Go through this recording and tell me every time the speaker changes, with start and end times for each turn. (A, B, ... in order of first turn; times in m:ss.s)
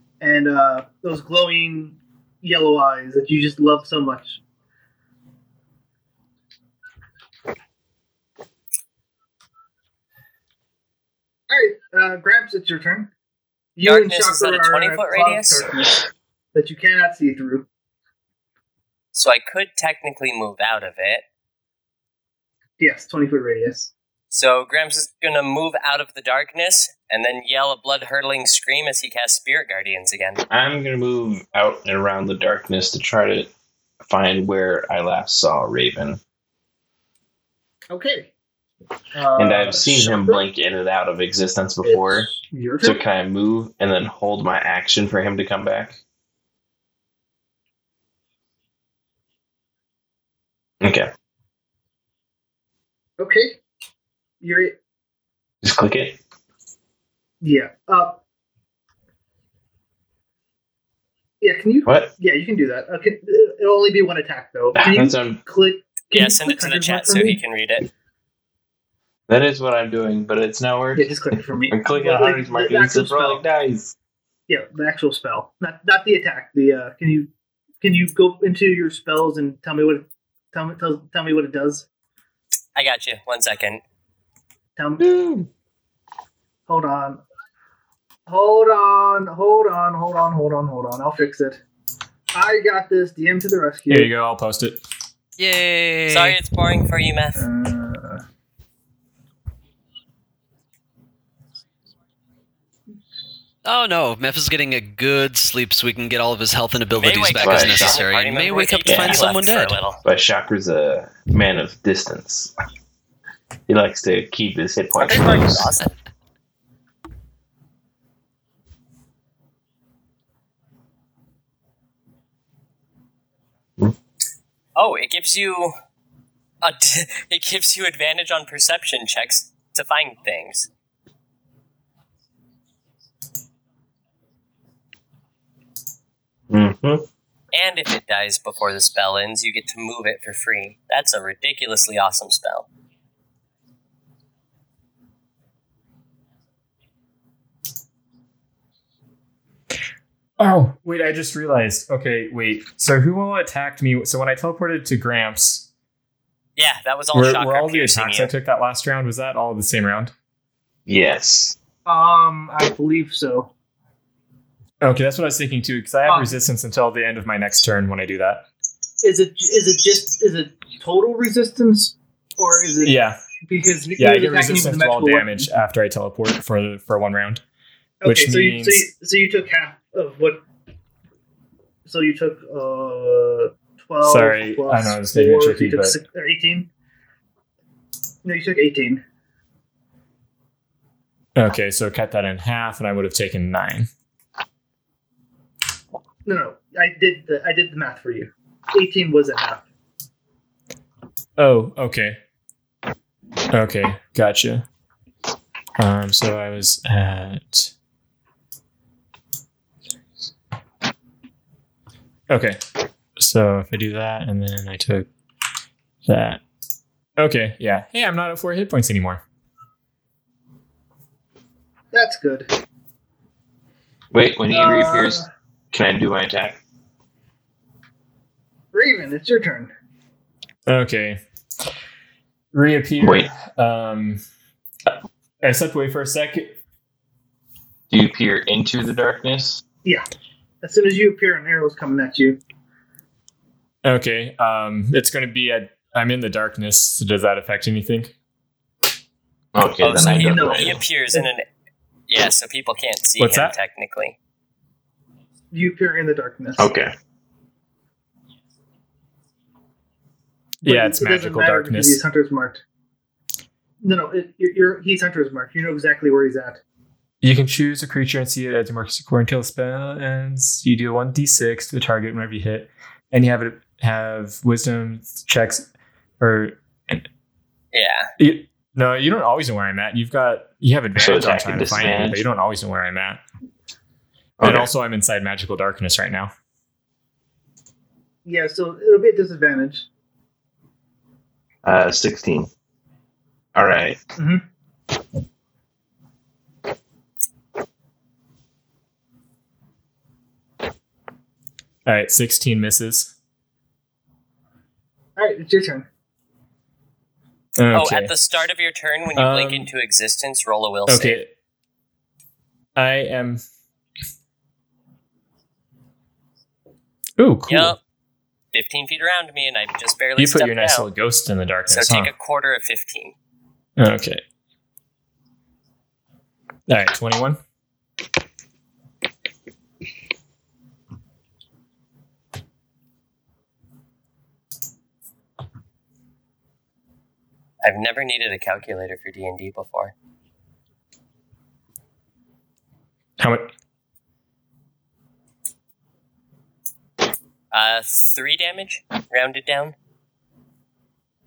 0:00.2-0:04.4 A
0:11.5-0:13.1 A
0:13.8-0:17.7 A
0:13.8-0:15.7 B
0:19.1-0:21.2 B
0:22.8-0:23.9 A
0:24.3-0:30.4 B
0:30.5-0:33.5 C
0:34.0-0:36.2 C
0:37.9-0:38.3 A
0:39.1-0:40.4 A
0:39.4-0:42.3 C
0:41.8-0:43.0 A
0:42.8-0:46.0 C
0:50.8-0:51.1 C
0:53.2-0:53.6 A
0:54.4-0:54.8 A
0:55.6-0:56.2 C
0:57.4-0:58.2 A
1:01.4-1:07.4 A
1:01.9-1:02.1 C
1:04.7-1:05.4 C
1:06.1-1:07.9 B
1:09.3-1:13.9 C
1:11.0-1:13.4 A
1:14.5-1:17.3 A
1:17.8-1:21.9 A
1:22.8-1:23.8 B
1:24.8-1:25.1 A
1:25.2-1:25.4 D
1:26.7-1:27.2 A
1:28.3-1:31.6 A
1:32.3-1:34.1 A
1:33.9-1:34.8 D
1:35.4-1:36.4 E
1:36.1-1:37.4 B
1:37.4-1:38.2 A
1:43.6-1:49.8 E
1:46.9-1:50.0 B
1:47.4-1:48.0 C
1:48.8-1:49.3 C
1:50.0-1:52.5 C
1:53.7-1:55.7 C
1:55.0-1:55.9 B
2:04.8-2:05.7 B
2:06.6-2:10.7 B
2:16.5-2:17.1 C
2:17.5-2:22.7 B
2:30.4-2:35.7 D
2:36.6-2:38.3 B
2:37.1-2:40.1 D
2:40.9-2:41.6 C
2:41.8-2:43.5 A
2:44.8-2:48.4 D
2:46.1-2:46.3 A
2:49.0-2:55.5 A
2:52.8-2:53.2 D
2:54.0-2:57.4 D
2:58.0-3:00.4 A
2:58.0-2:58.9 D
3:01.9-3:06.7 A
3:04.0-3:06.0 D
3:08.2-3:09.0 A
3:11.4-3:13.9 D
3:16.3-3:19.6 A
3:21.4-3:22.2 D
3:23.5-3:24.7 D
3:25.8-3:27.7 D
3:32.3-3:32.6 D
3:33.2-3:35.1 D
3:36.0-3:36.4 D
3:37.2-3:39.2 D
3:41.9-3:42.5 A
3:44.1-3:46.6 C
3:44.5-3:45.3 A
3:48.7-3:49.7 A
3:50.7-3:51.2 D
3:52.5-3:54.2 D
3:53.0-3:53.3 C
3:54.9-3:56.6 D
3:57.9-3:59.6 C
4:00.6-4:02.4 A
4:03.8-4:08.1 D
4:09.5-4:10.8 C
4:09.8-4:11.4 B
4:10.0-4:11.3 A
4:12.1-4:14.2 B
4:13.2-4:13.6 D
4:15.5-4:16.7 A
4:16.6-4:16.9 C
4:20.6-4:22.0 D
4:20.6-4:22.6 A
4:23.8-4:26.6 A
4:27.2-4:35.7 D
4:36.2-4:37.0 D
4:37.7-4:38.1 B
4:38.2-4:43.2 D
4:41.0-4:42.2 C
4:44.4-4:44.7 C
4:44.4-4:46.3 D
4:48.3-4:49.9 A
4:51.6-4:52.5 C
4:53.6-4:54.0 C
4:54.2-4:54.4 A
5:01.9-5:03.1 D
5:05.2-5:05.9 A
5:07.6-5:08.1 D
5:07.7-5:11.2 B
5:09.2-5:09.7 D
5:10.9-5:11.3 D
5:12.8-5:13.4 D
5:17.2-5:17.8 D
5:17.5-5:17.8 B
5:18.5-5:20.9 B
5:20.2-5:22.1 D
5:21.7-5:23.2 B
5:23.8-5:24.2 D
5:26.7-5:27.4 D
5:37.6-5:39.9 B
5:43.2-5:43.5 D
5:47.5-5:49.8 B